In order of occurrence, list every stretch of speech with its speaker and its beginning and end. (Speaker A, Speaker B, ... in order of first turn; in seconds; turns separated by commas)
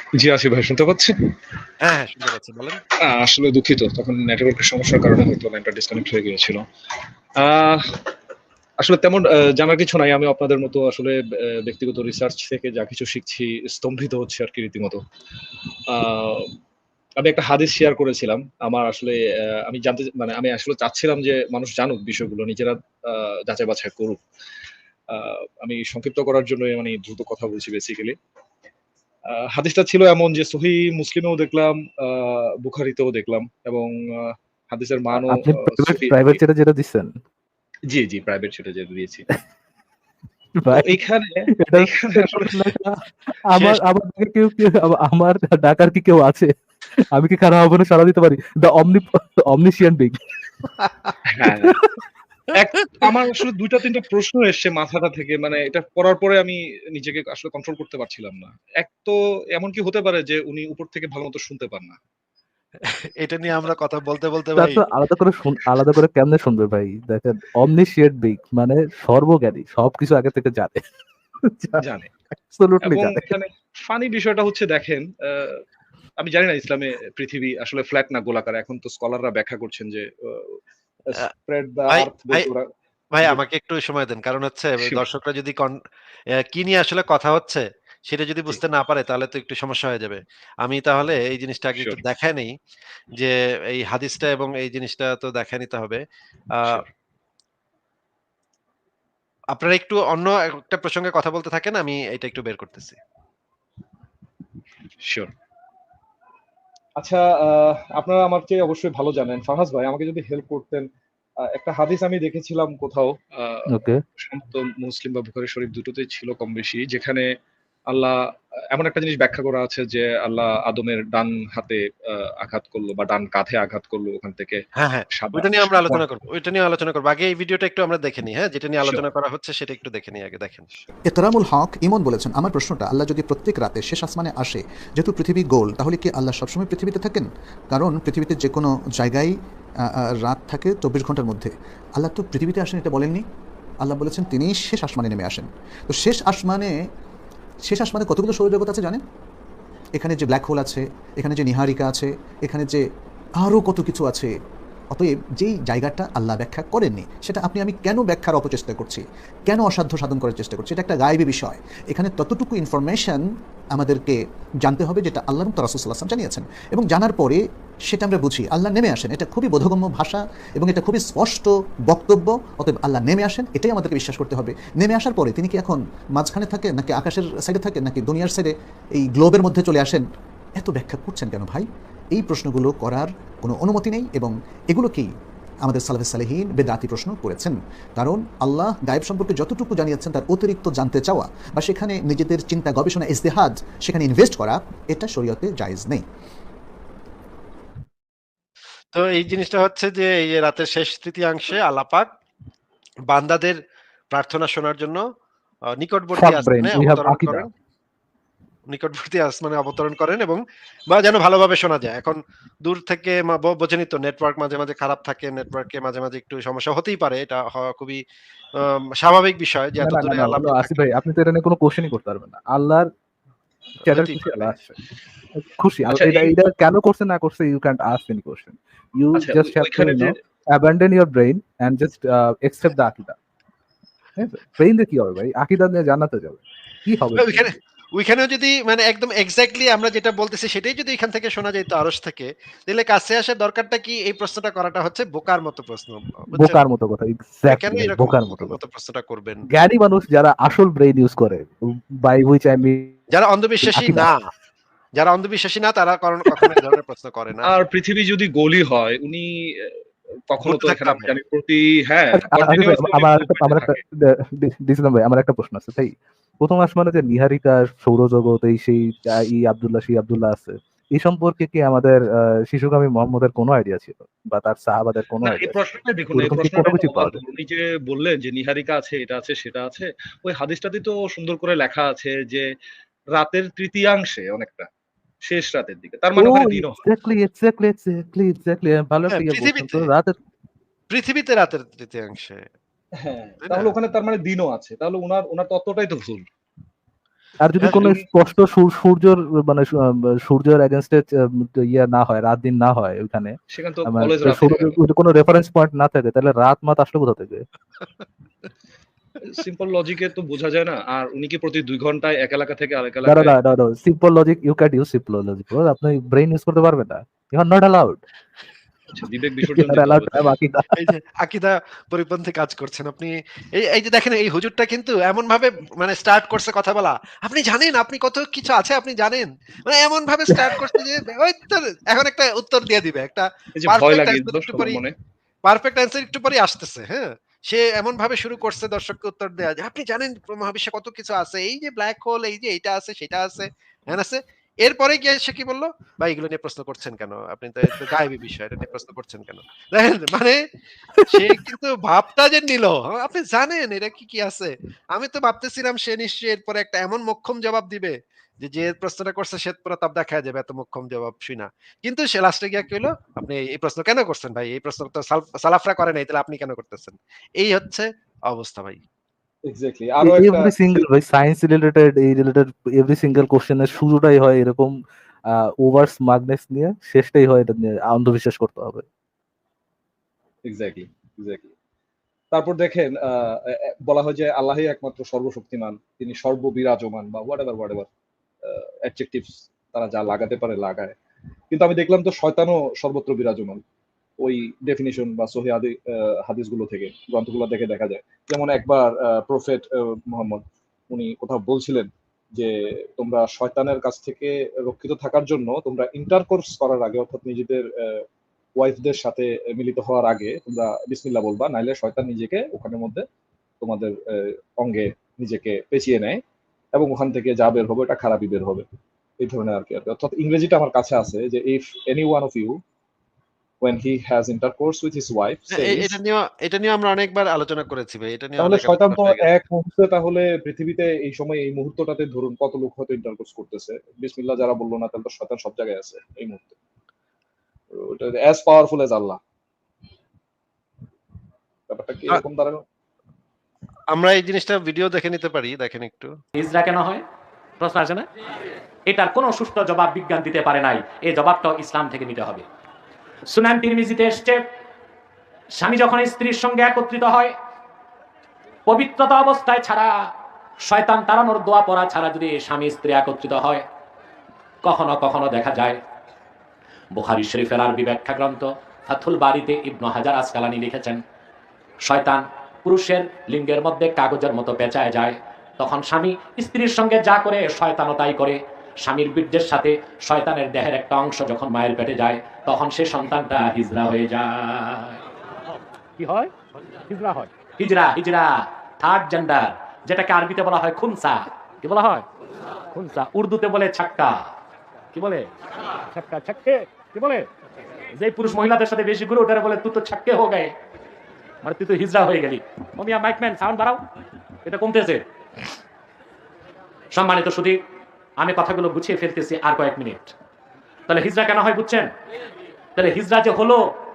Speaker A: 0.2-1.1, Speaker B: 1.8-2.8, Speaker A: 3.0-6.6, Speaker A: 7.4-7.8, Speaker A: 8.8-15.0, Speaker A: 15.9-16.5, Speaker A: 17.2-24.2, Speaker A: 25.1-28.1, Speaker A: 29.3-36.4, Speaker C: 35.2-37.1, Speaker A: 37.9-39.2, Speaker C: 40.5-40.9, Speaker A: 40.7-42.7, Speaker C: 41.5-46.5, Speaker A: 43.5-43.8, Speaker C: 47.0-50.3, Speaker A: 51.3-51.7, Speaker C: 51.6-52.0, Speaker A: 52.5-62.0, Speaker B: 62.8-64.8, Speaker C: 64.5-70.8, Speaker C: 71.4-71.8, Speaker A: 71.8-72.1, Speaker C: 72.4-73.3, Speaker A: 72.8-75.6, Speaker A: 76.2-80.6, Speaker A: 81.2-82.7, Speaker B: 81.9-82.5, Speaker B: 83.1-85.7, Speaker B: 86.5-92.5, Speaker B: 93.2-96.0, Speaker B: 99.5-103.0, Speaker A: 105.0-105.3, Speaker A: 107.0-110.8, Speaker A: 111.5-113.7, Speaker C: 113.7-114.0, Speaker A: 114.2-117.3, Speaker A: 117.9-118.2, Speaker A: 118.7-124.6, Speaker B: 124.8-130.7, Speaker A: 125.1-126.0, Speaker D: 131.1-139.3, Speaker D: 140.2-143.2, Speaker D: 143.8-146.7, Speaker D: 147.7-149.0, Speaker D: 149.9-152.8, Speaker D: 153.4-154.3, Speaker D: 154.9-180.0, Speaker D: 180.6-185.1, Speaker D: 185.6-196.0, Speaker B: 198.9-202.1, Speaker B: 203.1-203.6, Speaker B: 204.1-205.0, Speaker B: 205.8-207.5, Speaker C: 206.2-207.5, Speaker B: 208.7-218.0, Speaker B: 218.6-220.8, Speaker C: 219.8-222.9, Speaker B: 223.8-224.5, Speaker C: 223.8-224.8, Speaker C: 225.3-233.2, Speaker A: 225.9-226.3, Speaker A: 229.2-230.2, Speaker C: 234.2-237.6, Speaker B: 237.2-246.6, Speaker C: 246.3-248.6, Speaker B: 247.5-249.4, Speaker C: 249.5-253.0, Speaker B: 253.1-254.2, Speaker C: 253.6-254.1, Speaker B: 255.0-257.5, Speaker A: 257.4-259.7, Speaker A: 260.3-263.8, Speaker B: 260.4-261.1, Speaker C: 262.1-275.5, Speaker A: 275.2-282.5, Speaker C: 276.1-277.2, Speaker A: 283.1-284.7, Speaker A: 285.2-286.8, Speaker C: 286.1-290.2, Speaker B: 289.1-289.9, Speaker B: 290.9-292.4, Speaker A: 293.0-296.2, Speaker B: 293.4-293.7, Speaker C: 297.4-307.4, Speaker B: 297.6-297.9, Speaker A: 297.7-298.0, Speaker A: 303.5-304.8, Speaker A: 309.2-313.3, Speaker C: 313.1-318.0, Speaker A: 318.9-320.2, Speaker C: 319.4-320.9, Speaker B: 320.8-334.8, Speaker A: 333.6-334.9, Speaker B: 335.4-350.4, Speaker C: 351.0-351.5, Speaker B: 351.1-368.8, Speaker A: 369.4-370.8, Speaker C: 370.0-374.7, Speaker C: 375.3-378.8, Speaker A: 380.5-381.5, Speaker A: 382.3-387.9, Speaker A: 388.4-390.9, Speaker A: 391.5-393.6, Speaker A: 394.2-408.0, Speaker A: 408.6-413.0, Speaker A: 413.6-416.2, Speaker A: 416.7-418.6, Speaker A: 419.2-422.5, Speaker A: 423.6-425.9, Speaker B: 425.5-429.2, Speaker A: 428.4-436.6, Speaker A: 437.7-439.2, Speaker A: 441.7-442.6, Speaker B: 443.9-446.1, Speaker E: 446.4-447.0, Speaker E: 447.6-448.0, Speaker E: 448.9-452.4, Speaker E: 453.3-454.4, Speaker E: 455.6-457.3, Speaker E: 458.7-459.9, Speaker E: 460.7-463.6, Speaker E: 464.6-465.8, Speaker E: 466.9-471.0, Speaker E: 471.8-485.0, Speaker E: 486.0-486.3, Speaker E: 486.9-492.1, Speaker E: 492.7-494.2, Speaker E: 494.9-495.3, Speaker E: 495.9-497.3, Speaker E: 497.9-500.5, Speaker E: 501.4-503.8, Speaker E: 504.4-505.0, Speaker E: 506.9-507.6, Speaker E: 508.2-510.1, Speaker E: 510.9-511.9, Speaker E: 512.8-513.6